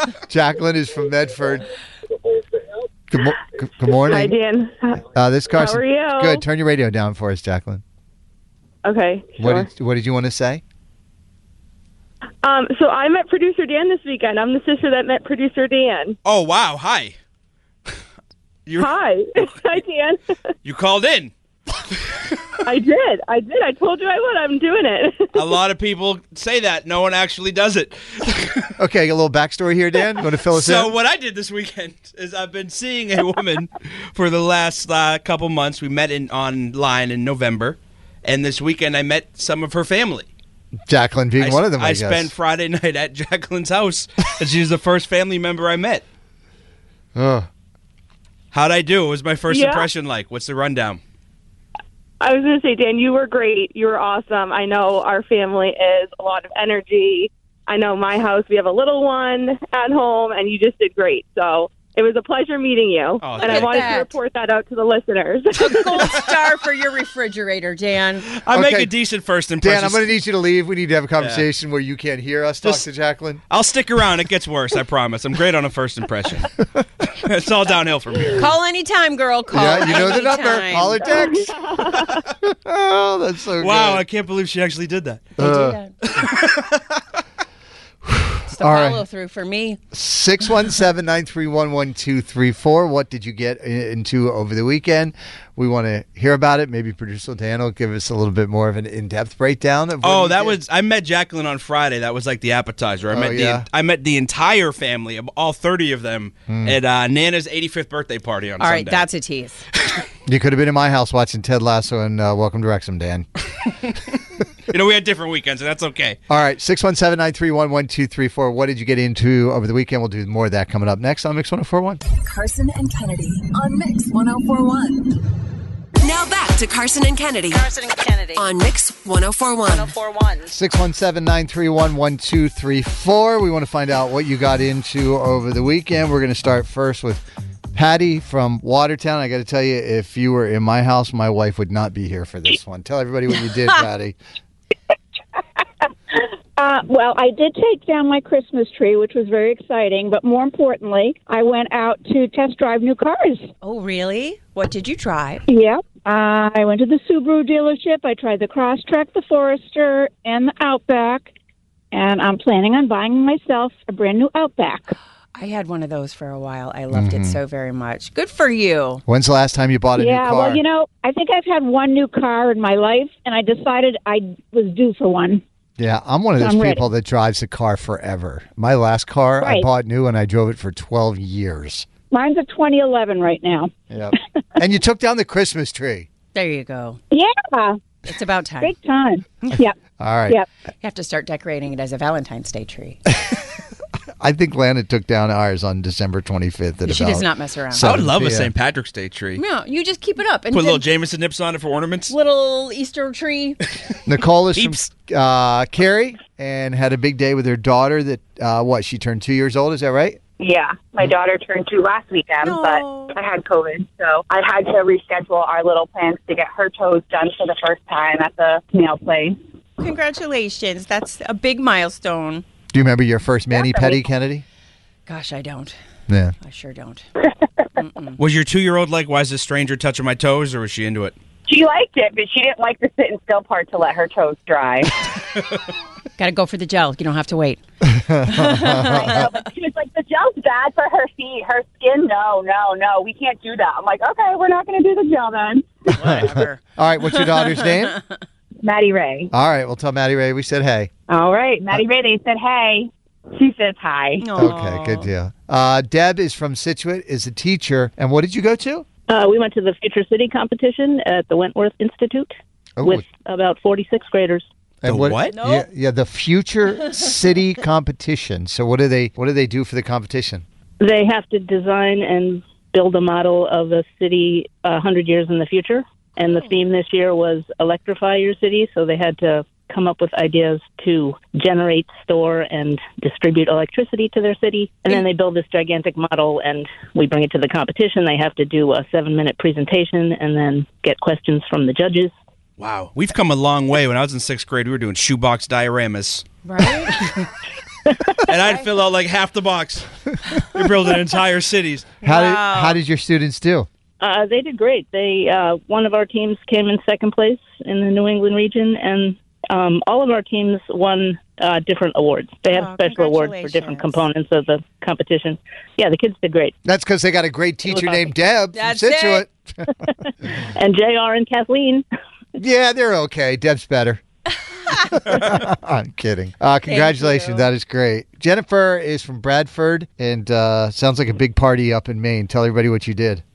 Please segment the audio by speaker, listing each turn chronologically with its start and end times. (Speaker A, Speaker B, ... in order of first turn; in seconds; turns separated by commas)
Speaker A: 0.3-1.6, Speaker A: 3.1-4.3, Speaker B: 4.1-4.8, Speaker A: 5.0-7.8, Speaker B: 5.6-6.4, Speaker B: 8.8-9.6, Speaker A: 9.4-10.6, Speaker B: 12.4-16.1, Speaker C: 16.2-17.1, Speaker C: 18.7-19.6, Speaker B: 18.8-19.2, Speaker C: 20.6-21.3, Speaker B: 22.6-25.2, Speaker C: 25.3-28.6, Speaker A: 28.8-30.9, Speaker C: 30.5-40.3, Speaker A: 40.9-42.3, Speaker C: 41.4-46.0, Speaker A: 47.1-47.5, Speaker C: 48.5-51.0, Speaker B: 49.5-49.8, Speaker B: 52.2-65.7, Speaker C: 63.2-63.9, Speaker D: 63.4-64.1, Speaker D: 65.5-68.2, Speaker C: 68.3-70.1, Speaker A: 68.5-68.9, Speaker A: 69.6-73.4, Speaker C: 71.2-71.4, Speaker C: 73.5-76.5, Speaker C: 77.2-78.5, Speaker D: 78.3-81.1, Speaker A: 79.5-81.6, Speaker A: 82.4-84.0, Speaker C: 83.6-85.4, Speaker A: 85.4-85.8, Speaker D: 85.4-85.9, Speaker C: 86.1-86.8, Speaker A: 88.0-89.0, Speaker D: 88.5-89.8, Speaker A: 89.9-100.6, Speaker C: 100.0-109.0, Speaker A: 103.1-103.7, Speaker A: 106.5-106.8, Speaker D: 108.6-109.6, Speaker A: 110.2-113.2, Speaker C: 114.7-116.2, Speaker A: 116.3-122.0, Speaker E: 122.1-125.1, Speaker F: 126.0-127.6, Speaker B: 127.5-128.4, Speaker F: 128.3-129.9, Speaker B: 129.7-130.5, Speaker A: 130.5-144.2, Speaker G: 146.6-153.5, Speaker D: 153.6-155.4, Speaker G: 155.5-161.3, Speaker G: 161.9-164.9, Speaker D: 165.3-169.0, Speaker A: 166.9-167.4, Speaker A: 169.1-170.6, Speaker G: 170.0-175.4, Speaker A: 175.8-181.9, Speaker G: 176.4-176.8, Speaker G: 182.1-183.7, Speaker A: 183.9-186.1, Speaker D: 186.3-187.0, Speaker G: 187.1-187.8, Speaker D: 188.1-188.7, Speaker G: 188.6-189.7, Speaker A: 190.0-190.4, Speaker D: 190.8-193.0, Speaker A: 194.2-198.5, Speaker D: 196.8-197.9, Speaker C: 197.8-199.4, Speaker D: 199.3-200.8, Speaker C: 200.5-202.1, Speaker D: 202.1-203.6, Speaker A: 204.1-210.2, Speaker C: 204.6-204.8, Speaker H: 210.4-219.4, Speaker D: 212.4-213.2, Speaker D: 219.8-222.4, Speaker A: 222.7-224.4, Speaker D: 225.1-225.8, Speaker A: 226.1-226.3, Speaker D: 226.4-227.1, Speaker D: 227.8-228.2, Speaker C: 228.2-231.1, Speaker H: 231.4-234.9, Speaker D: 236.2-237.6, Speaker A: 237.8-239.2, Speaker D: 238.3-239.3, Speaker H: 238.8-245.7, Speaker D: 245.9-246.6, Speaker A: 246.0-247.9, Speaker D: 247.2-247.9, Speaker H: 248.6-249.3, Speaker A: 249.3-250.9, Speaker H: 251.1-254.3, Speaker D: 254.2-255.1, Speaker A: 254.3-258.9, Speaker I: 259.1-264.5, Speaker A: 262.8-263.0, Speaker A: 264.8-270.4, Speaker C: 264.8-265.3, Speaker D: 265.3-265.6, Speaker I: 270.8-292.1, Speaker C: 292.6-296.2, Speaker D: 296.4-296.9, Speaker C: 298.3-299.9, Speaker C: 300.4-301.9, Speaker D: 302.0-302.8, Speaker A: 302.0-303.7, Speaker I: 304.0-316.5, Speaker D: 312.5-314.0, Speaker A: 316.6-319.3, Speaker D: 318.5-319.2, Speaker I: 320.4-321.8, Speaker A: 322.4-324.0, Speaker A: 324.9-333.2, Speaker D: 326.7-327.5